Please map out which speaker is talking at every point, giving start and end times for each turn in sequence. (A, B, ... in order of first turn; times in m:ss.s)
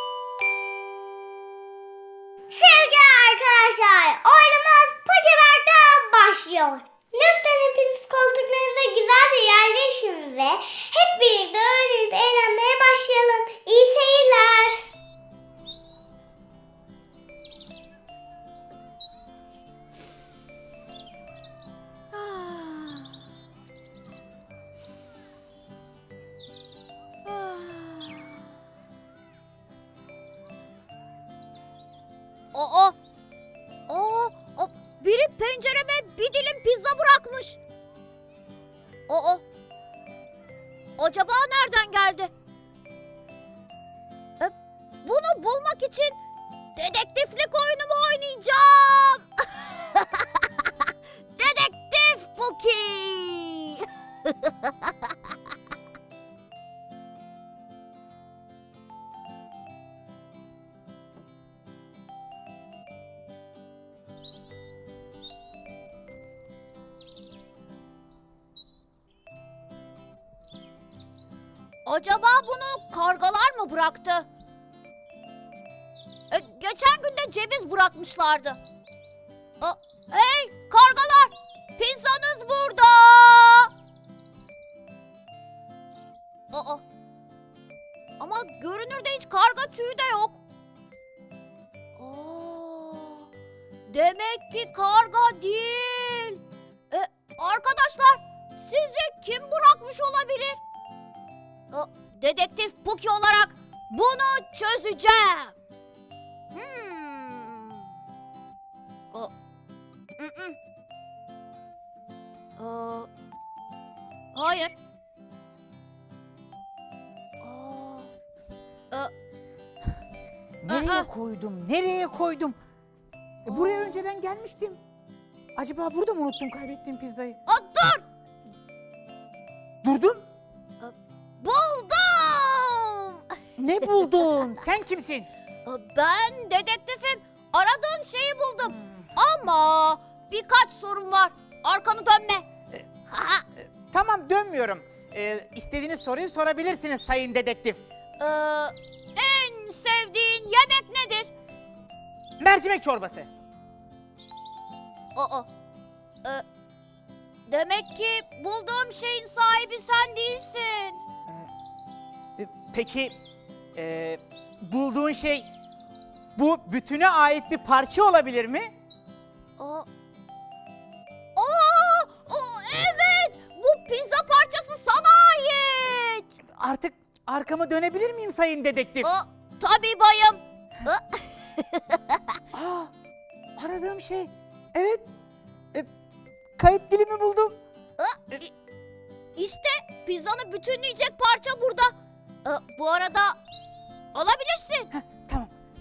0:02.5-0:14.8 A
0:22.1-0:23.1 B
0:27.2-0:28.3 B
0:32.5-0:33.0 B
0:33.9-0:37.6 B
0:39.1-0:39.4 B
0:41.0-0:42.3 B
0:44.4-0:46.2 B
0:46.7-0:50.4 B
0:51.4-0:54.7 B
1:11.8-1:14.3 B
1:16.3-1:18.6 B
1:19.6-1:23.7 B
1:26.5-1:26.8 B
1:28.2-1:30.4 B
1:32.0-1:33.3 B
1:33.9-1:40.6 B
1:41.7-1:45.6 B
1:46.5-1:47.9 B
1:50.2-1:50.6 B
1:52.6-1:53.1 B
1:54.3-1:54.7 B
1:57.4-1:58.1 B
2:00.6-2:02.6 C
2:00.7-2:01.1 B
2:03.4-2:04.8 C
2:03.4-2:04.0 B
2:05.6-2:07.4 C
2:07.4-2:08.0 B
2:09.8-2:10.2 C
2:10.8-2:13.2 B
2:13.6-2:15.3 C
2:15.6-2:22.5 B
2:18.7-2:19.1 C
2:23.0-2:23.4 B
2:23.7-2:27.8 C
2:28.2-2:31.3 B
2:32.4-2:33.3 C
2:35.1-2:35.5 B
2:37.5-2:41.0 B
2:42.4-2:43.2 C
2:43.7-2:45.5 C
2:46.4-2:48.7 C
2:49.6-2:49.9 B
2:51.4-2:56.3 B
2:56.6-2:59.1 C
2:59.0-3:02.2 B
3:02.5-3:02.9 C
3:03.6-3:05.0 C
3:06.6-3:07.6 C
3:08.0-3:08.5 B
3:09.4-3:13.4 B
3:14.1-3:14.9 B
3:14.9-3:15.5 C